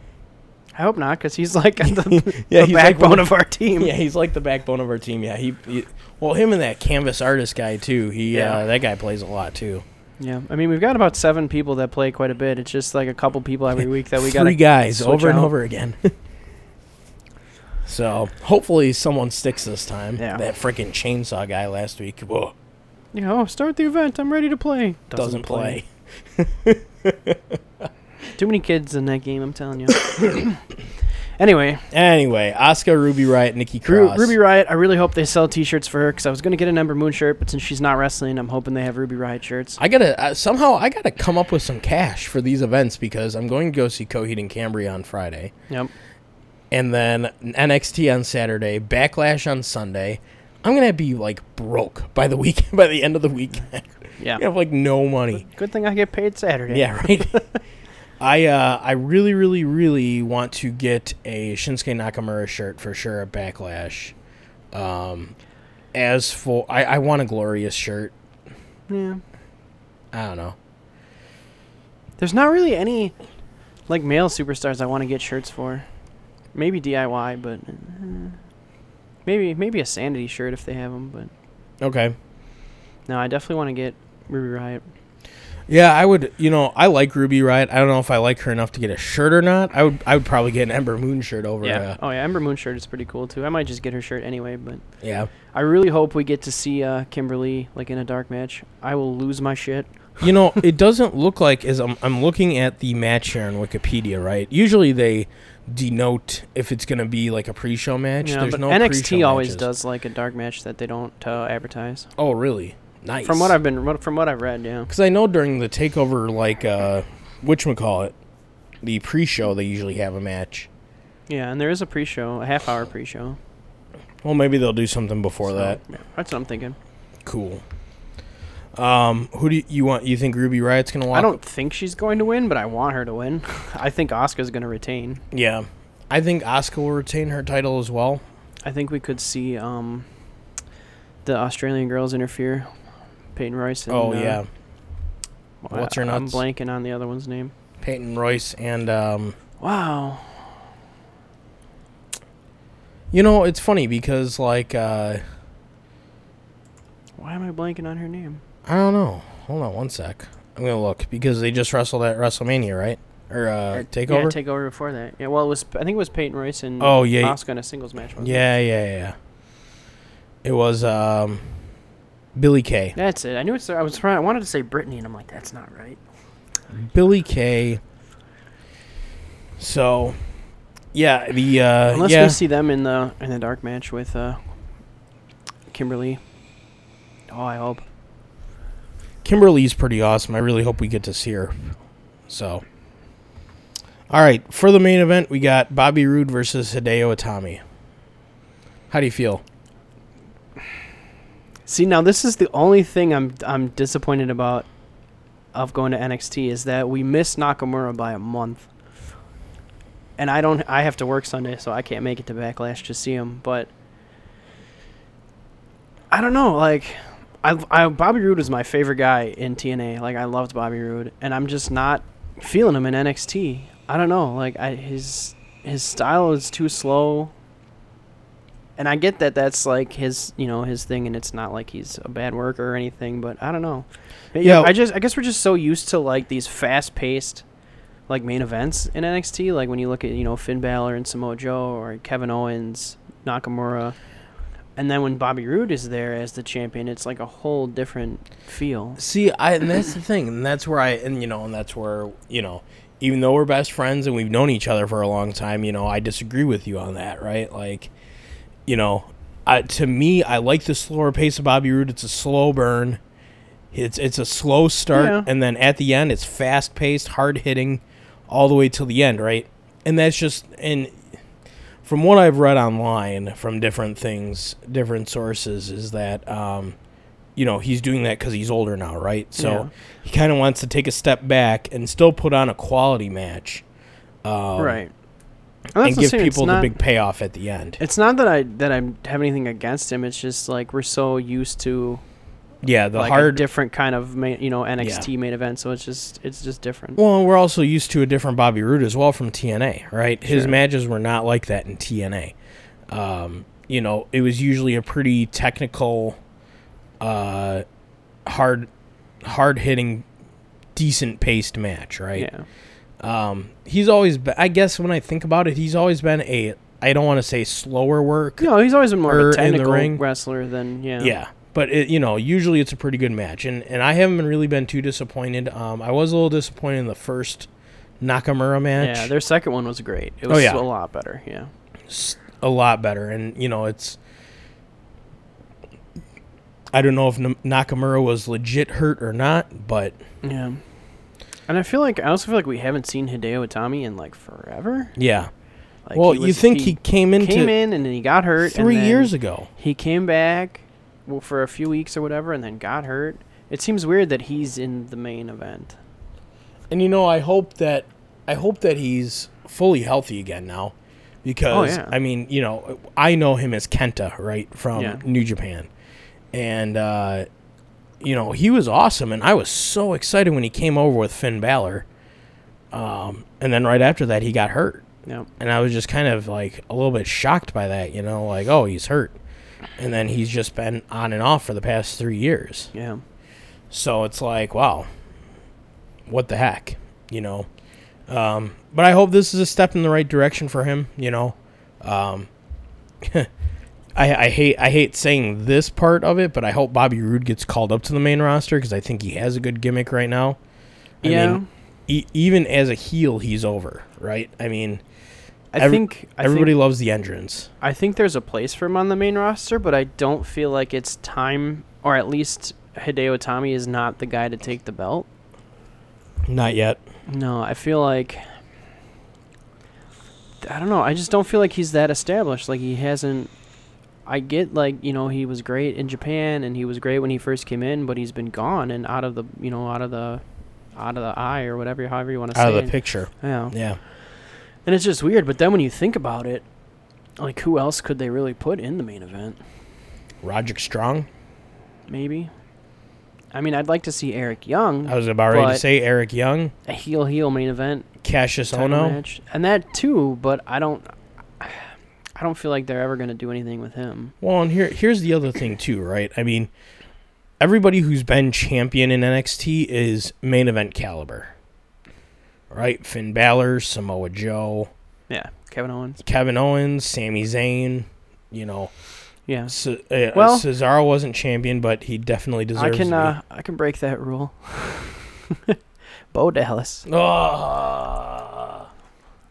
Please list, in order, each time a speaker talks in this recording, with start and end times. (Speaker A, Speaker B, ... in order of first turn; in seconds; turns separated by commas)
Speaker A: 0.8-3.9, Speaker B: 1.8-9.8, Speaker A: 8.3-8.6, Speaker A: 10.2-15.5, Speaker B: 14.2-16.1, Speaker B: 17.9-22.5, Speaker A: 20.2-20.4, Speaker A: 23.1-25.8, Speaker B: 25.1-27.6, Speaker A: 28.4-30.6, Speaker A: 31.4-31.9, Speaker B: 31.9-34.4, Speaker A: 33.8-39.8, Speaker B: 39.8-45.5, Speaker B: 46.7-55.4, Speaker A: 55.3-57.6, Speaker B: 56.7-57.4, Speaker B: 58.2-64.1, Speaker B: 64.7-65.3, Speaker B: 65.9-68.1, Speaker A: 68.9-69.2, Speaker B: 70.1-70.5, Speaker A: 72.2-73.1, Speaker A: 73.9-75.8, Speaker A: 76.5-78.4, Speaker A: 79.2-81.3, Speaker B: 81.8-82.1, Speaker A: 83.1-84.8, Speaker B: 85.7-92.0, Speaker A: 91.6-94.8, Speaker B: 95.0-95.3, Speaker A: 95.5-99.9, Speaker B: 100.2-109.7, Speaker A: 108.2-112.1, Speaker B: 112.2-113.6, Speaker A: 113.2-114.9, Speaker B: 114.9-118.1, Speaker B: 118.8-120.7, Speaker A: 121.3-123.4, Speaker B: 124.2-125.8, Speaker A: 125.4-126.8, Speaker B: 127.2-127.6, Speaker B: 128.8-131.3, Speaker A: 131.1-135.2, Speaker B: 135.3-138.2, Speaker A: 138.6-140.1, Speaker A: 141.2-142.7, Speaker A: 143.3-144.4, Speaker B: 143.9-144.5, Speaker A: 145.6-147.5, Speaker B: 145.7-146.4, Speaker B: 147.8-149.3, Speaker A: 149.6-150.4, Speaker B: 153.1-155.2, Speaker A: 157.2-158.4, Speaker B: 158.7-164.3, Speaker A: 163.7-168.5, Speaker B: 166.8-167.4, Speaker B: 168.2-169.1, Speaker B: 170.4-171.5, Speaker B: 172.3-172.9, Speaker A: 172.9-176.0, Speaker B: 176.7-177.8, Speaker B: 179.6-180.2, Speaker B: 180.9-182.4, Speaker A: 181.9-184.4, Speaker A: 185.7-186.2, Speaker A: 187.3-187.8, Speaker B: 189.2-191.8, Speaker B: 192.3-192.6, Speaker B: 194.1-197.6, Speaker B: 198.9-199.4, Speaker A: 201.7-204.7, Speaker A: 205.5-208.7, Speaker A: 210.2-213.7, Speaker A: 216.1-227.3, Speaker A: 228.8-237.4, Speaker B: 234.4-234.7, Speaker A: 238.1-243.9, Speaker A: 244.8-249.0, Speaker B: 249.0-257.9, Speaker B: 258.7-263.0, Speaker B: 263.7-271.0, Speaker A: 264.9-265.3, Speaker B: 271.8-276.8, Speaker B: 277.4-283.6, Speaker A: 279.4-279.7, Speaker B: 284.2-284.8, Speaker A: 284.6-284.9, Speaker A: 285.7-286.7, Speaker B: 285.8-287.8, Speaker A: 287.8-292.0, Speaker B: 292.6-293.4, Speaker A: 292.9-297.0, Speaker B: 294.8-295.1, Speaker B: 297.0-302.3, Speaker A: 300.2-300.6, Speaker B: 302.9-306.2, Speaker B: 307.0-307.6, Speaker B: 308.2-308.7, Speaker B: 309.2-310.1, Speaker B: 310.7-312.3, Speaker A: 312.1-312.4, Speaker B: 313.0-318.5, Speaker A: 318.4-321.1, Speaker B: 319.0-320.0, Speaker B: 321.0-327.5, Speaker B: 328.0-329.1, Speaker A: 328.8-331.5, Speaker B: 330.3-330.6, Speaker B: 331.9-334.0, Speaker B: 336.7-339.9, Speaker A: 340.2-340.6, Speaker A: 341.5-344.9, Speaker B: 344.9-345.3, Speaker A: 345.9-355.8, Speaker B: 345.9-347.5, Speaker B: 348.4-349.5, Speaker B: 356.7-365.7, Speaker A: 361.5-361.9, Speaker A: 364.8-365.0, Speaker B: 366.3-367.2, Speaker B: 368.0-371.9, Speaker B: 372.7-374.9, Speaker B: 375.4-379.1, Speaker B: 379.8-382.7, Speaker A: 382.7-383.0, Speaker B: 383.7-384.9, Speaker B: 386.1-387.5, Speaker B: 388.1-392.3, Speaker B: 393.0-393.3, Speaker B: 393.9-400.4, Speaker B: 401.0-404.8, Speaker A: 401.0-401.5, Speaker A: 405.5-406.5, Speaker B: 405.6-407.5, Speaker A: 407.6-415.1, Speaker B: 416.3-416.8, Speaker A: 417.1-418.3, Speaker A: 420.4-423.3, Speaker A: 424.1-430.2, Speaker A: 430.7-433.5, Speaker B: 432.3-433.8, Speaker A: 434.6-436.4, Speaker A: 437.2-439.4, Speaker B: 440.2-441.1, Speaker A: 441.9-442.3, Speaker A: 443.3-445.6, Speaker B: 444.9-446.5, Speaker A: 446.7-447.9, Speaker B: 448.0-449.0, Speaker A: 448.5-454.1, Speaker B: 454.2-456.5, Speaker B: 457.4-461.3, Speaker B: 462.5-464.7, Speaker A: 465.1-466.0, Speaker B: 466.0-468.7, Speaker A: 469.3-469.5, Speaker B: 469.5-473.1, Speaker A: 470.1-470.4, Speaker A: 472.5-475.6, Speaker A: 476.1-476.9, Speaker B: 476.9-478.6